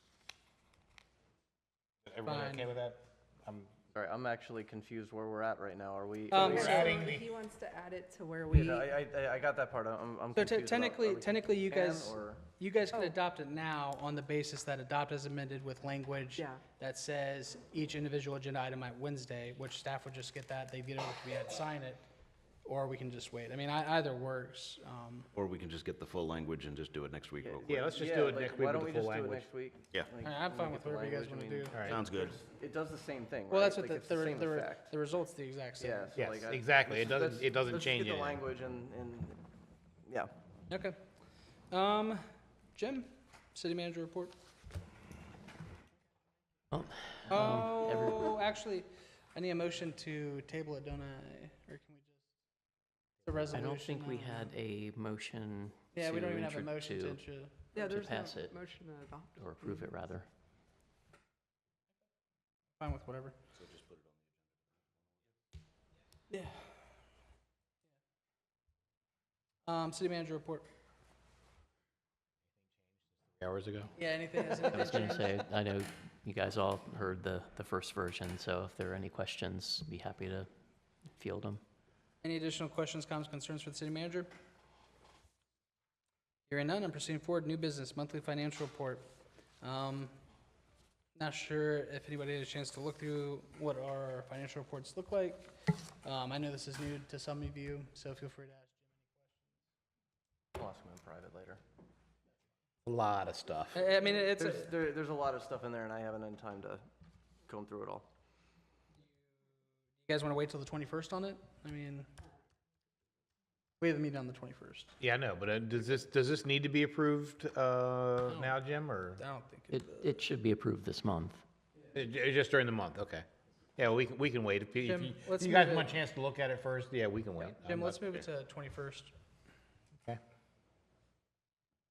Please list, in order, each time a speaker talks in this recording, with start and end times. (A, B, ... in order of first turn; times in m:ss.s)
0:02.1-0:03.7 A
0:02.2-0:02.7 B
0:03.9-0:06.9 C
0:06.3-0:06.9 B
0:06.3-0:07.3 A
0:06.4-0:09.0 D
0:08.5-0:12.4 C
0:10.4-0:22.0 B
0:22.6-0:25.3 B
0:25.4-0:27.9 E
0:27.4-0:34.9 C
0:27.7-0:29.5 A
0:30.2-0:32.0 B
0:31.8-0:32.4 E
0:33.5-0:36.1 B
0:35.8-0:39.4 C
0:36.2-0:38.4 A
0:40.7-0:41.0 B
0:41.7-0:42.2 B
0:42.8-0:44.3 B
0:46.7-0:48.4 F
0:47.3-0:52.3 B
0:53.2-0:54.5 B
0:53.5-0:57.2 F
0:56.0-0:57.6 B
0:57.7-0:59.9 D
0:57.8-0:58.6 F
0:59.4-1:00.3 F
1:02.8-1:03.4 B
1:06.3-1:06.8 B
1:09.7-1:10.7 B
1:13.4-1:13.9 A
1:14.0-1:15.4 B
1:14.7-1:20.5 F
1:21.2-1:21.6 F
1:22.2-1:24.3 B
1:26.5-1:29.1 B
1:29.6-1:30.2 B
1:31.2-1:39.0 B
1:40.6-1:41.6 C
1:42.9-1:43.8 A
1:43.7-1:44.7 B
1:44.1-1:46.8 C
1:47.5-1:48.1 C
1:50.0-1:52.1 B
1:53.8-1:54.9 B
1:55.0-1:59.2 A
1:58.3-1:58.6 B
1:59.2-1:59.8 B
1:59.7-2:01.4 F
2:01.9-2:03.2 A
2:03.8-2:08.1 A
2:04.8-2:05.9 B
2:07.4-2:09.1 B